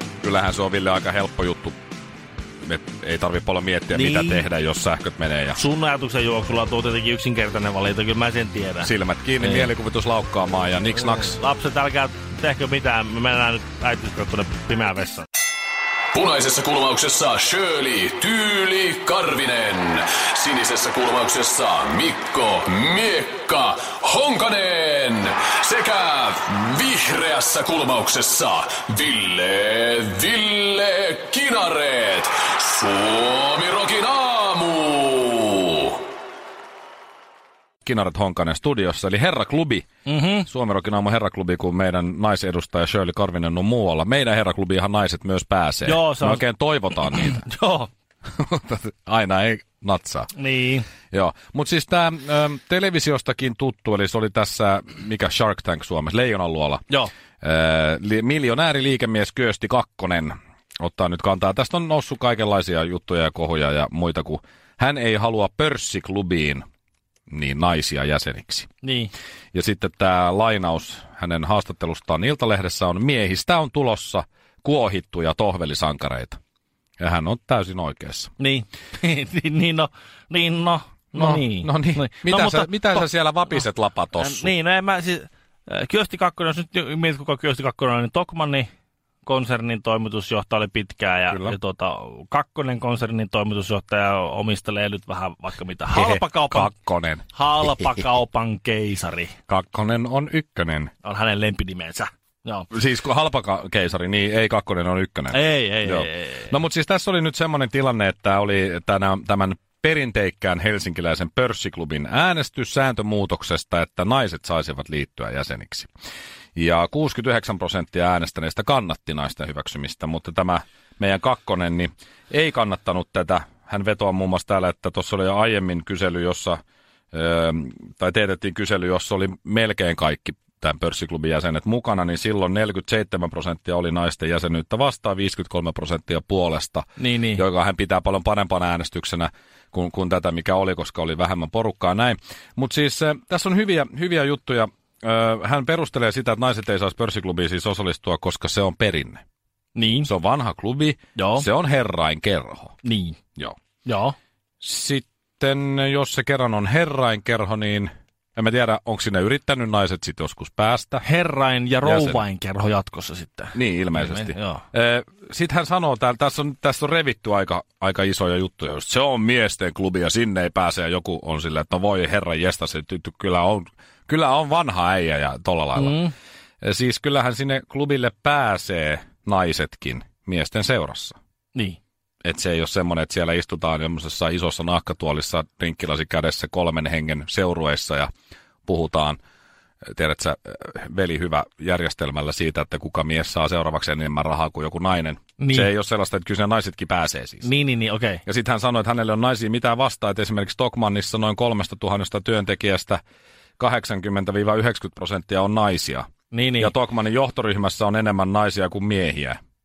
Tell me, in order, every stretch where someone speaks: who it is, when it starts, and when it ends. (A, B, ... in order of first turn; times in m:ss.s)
0:00.2-0:01.8 A
0:02.6-0:05.6 A
0:03.9-0:04.5 B
0:05.6-0:09.7 B
0:08.8-0:11.4 A
0:11.0-0:15.2 B
0:16.1-0:36.0 C
0:37.8-0:47.4 A
0:40.1-0:40.5 B
0:45.8-0:47.9 B
0:48.4-0:50.3 A
0:50.3-0:50.9 B
0:51.1-0:56.8 A
0:57.4-1:06.6 A
1:07.3-1:08.7 A
1:08.8-1:09.1 B
1:09.5-1:16.4 A
1:17.0-1:18.3 A
1:18.4-1:23.1 B
1:21.1-1:24.5 A
1:24.1-1:28.7 B
1:29.2-1:36.7 B
1:31.3-1:31.6 A
1:35.9-1:37.2 A
1:37.3-1:39.3 B
1:39.5-1:40.9 A
1:41.0-1:42.7 B
1:42.7-1:55.9 A
1:45.3-1:46.5 B
1:56.6-2:06.6 A
2:07.1-2:29.2 A
2:17.0-2:17.4 B
2:29.8-2:30.1 B
2:30.0-2:32.8 A
2:31.1-2:31.5 B
2:32.8-2:33.2 B
2:33.8-2:34.2 B
2:34.6-2:41.0 A
2:41.0-2:44.6 B
2:41.8-2:42.2 A
2:43.6-2:56.0 A
2:55.8-2:56.1 B
2:56.6-3:01.2 A
3:02.2-3:08.1 A
3:08.6-3:09.2 A
3:09.9-3:17.5 A
3:15.4-3:15.7 B
3:17.4-3:18.2 B
3:18.2-3:23.0 A
3:23.6-3:26.1 A
3:26.3-3:26.7 B
3:26.6-3:29.4 A